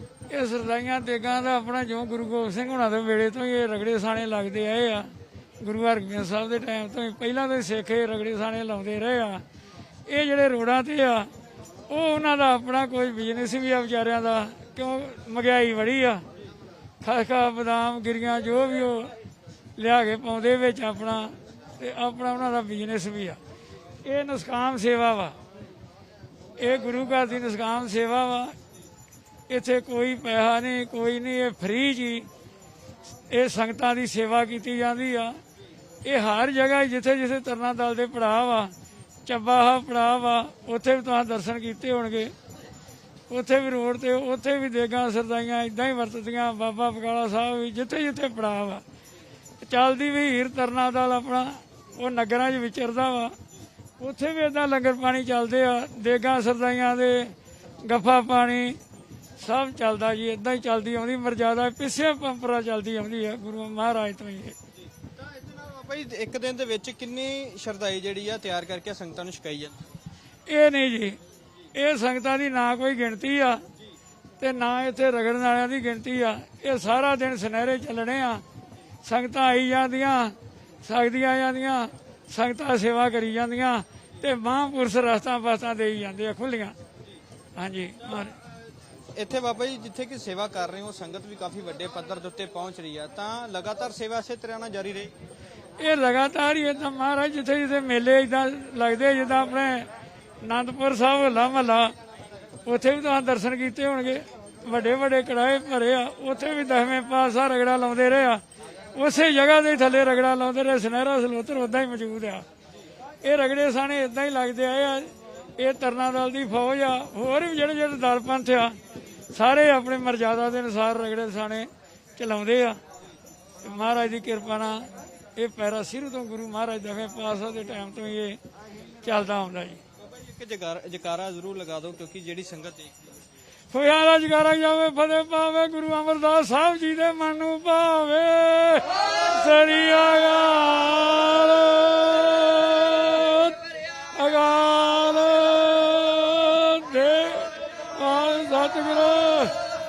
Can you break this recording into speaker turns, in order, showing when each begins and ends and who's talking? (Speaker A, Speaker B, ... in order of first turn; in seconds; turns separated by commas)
Speaker A: 0.3-9.4, Speaker A: 10.1-11.3, Speaker A: 11.9-16.2, Speaker A: 17.0-19.1, Speaker A: 19.8-23.4, Speaker A: 24.0-25.4, Speaker A: 26.6-28.6, Speaker A: 29.5-32.3, Speaker A: 33.3-35.4, Speaker A: 36.0-38.7, Speaker A: 39.3-42.3, Speaker A: 43.3-48.8, Speaker A: 49.6-53.4, Speaker A: 54.0-58.8, Speaker A: 59.4-64.6, Speaker B: 65.2-69.8, Speaker A: 70.5-71.2, Speaker A: 71.8-73.6, Speaker A: 74.4-78.4, Speaker A: 79.0-86.8, Speaker A: 87.6-88.4, Speaker B: 89.2-95.1, Speaker A: 95.8-99.9, Speaker A: 100.4-101.9, Speaker A: 102.7-108.4, Speaker A: 109.0-112.5, Speaker A: 113.2-118.8, Speaker A: 119.3-122.8, Speaker A: 123.6-128.4, Speaker A: 129.0-129.8, Speaker B: 130.0-133.1, Speaker A: 133.7-143.6, Speaker A: 144.1-149.6